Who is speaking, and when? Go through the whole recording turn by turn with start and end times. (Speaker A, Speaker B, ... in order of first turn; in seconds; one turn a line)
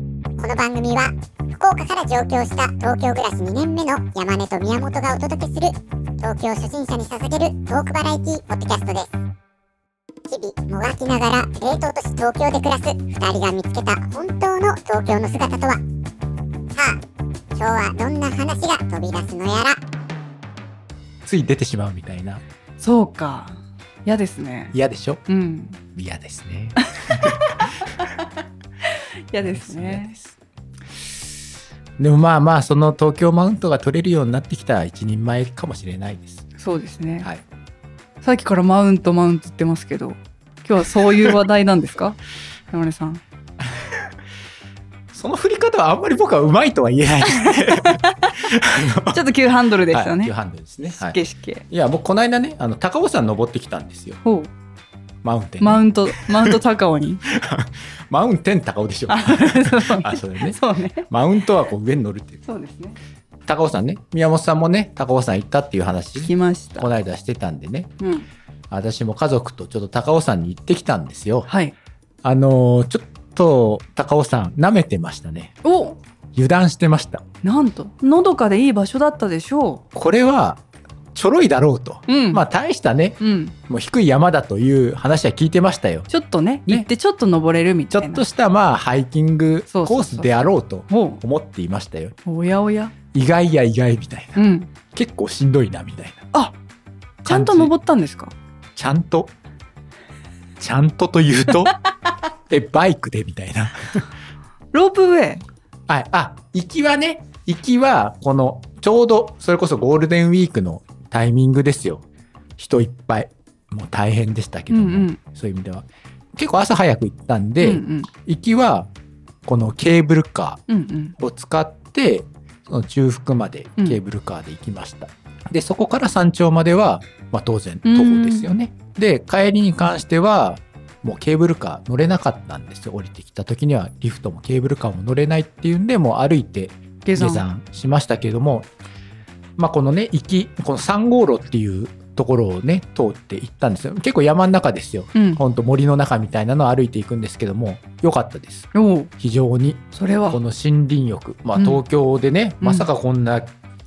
Speaker A: 0.4-9.1
Speaker A: 10.3-15.8
Speaker A: 16.7-17.0
Speaker A: 17.6-19.8
Speaker B: 21.2-22.4
Speaker C: 22.8-24.8
Speaker B: 24.7-25.2
Speaker C: 25.3-25.8
Speaker B: 25.9-27.7
Speaker C: 26.8-28.3
Speaker C: 28.9-30.1
Speaker B: 29.4-30.4
Speaker B: 32.0-36.5
Speaker C: 36.6-37.3
Speaker C: 38.2-42.2
Speaker B: 41.0-41.4
Speaker C: 42.7-43.2
Speaker B: 43.6-44.1
Speaker B: 45.1-49.3
Speaker C: 47.3-48.4
Speaker C: 49.1-50.3
Speaker B: 49.9-51.2
Speaker C: 50.9-51.6
Speaker B: 51.7-54.2
Speaker C: 54.2-54.5
Speaker B: 55.2-56.6
Speaker C: 55.6-57.2
Speaker B: 57.3-62.4
Speaker C: 59.1-61.1
Speaker C: 62.5-63.0
Speaker B: 63.5-67.9
Speaker C: 66.2-66.9
Speaker C: 68.0-68.3
Speaker B: 68.7-71.5
Speaker C: 71.5-71.8
Speaker B: 72.2-75.6
Speaker C: 75.6-76.0
Speaker B: 76.3-77.2
Speaker C: 77.4-79.8
Speaker B: 79.9-80.6
Speaker B: 81.2-86.1
Speaker C: 82.1-82.4
Speaker C: 83.2-83.5
Speaker C: 86.1-88.2
Speaker B: 87.9-92.2
Speaker C: 89.7-91.2
Speaker C: 92.3-92.9
Speaker B: 93.1-96.2
Speaker C: 94.3-94.7
Speaker B: 97.2-97.7
Speaker C: 97.2-98.3
Speaker B: 98.8-99.3
Speaker B: 100.6-101.8
Speaker B: 102.5-104.1
Speaker C: 104.7-105.5
Speaker B: 105.9-112.0
Speaker B: 112.6-118.9
Speaker C: 114.7-115.2
Speaker C: 117.6-118.1
Speaker B: 119.5-120.6
Speaker C: 120.7-121.2
Speaker B: 121.2-138.7
Speaker C: 127.8-128.5
Speaker C: 137.1-137.5
Speaker B: 139.6-153.5
Speaker C: 145.2-145.4
Speaker C: 148.7-149.1
Speaker C: 149.9-150.4
Speaker C: 152.6-152.9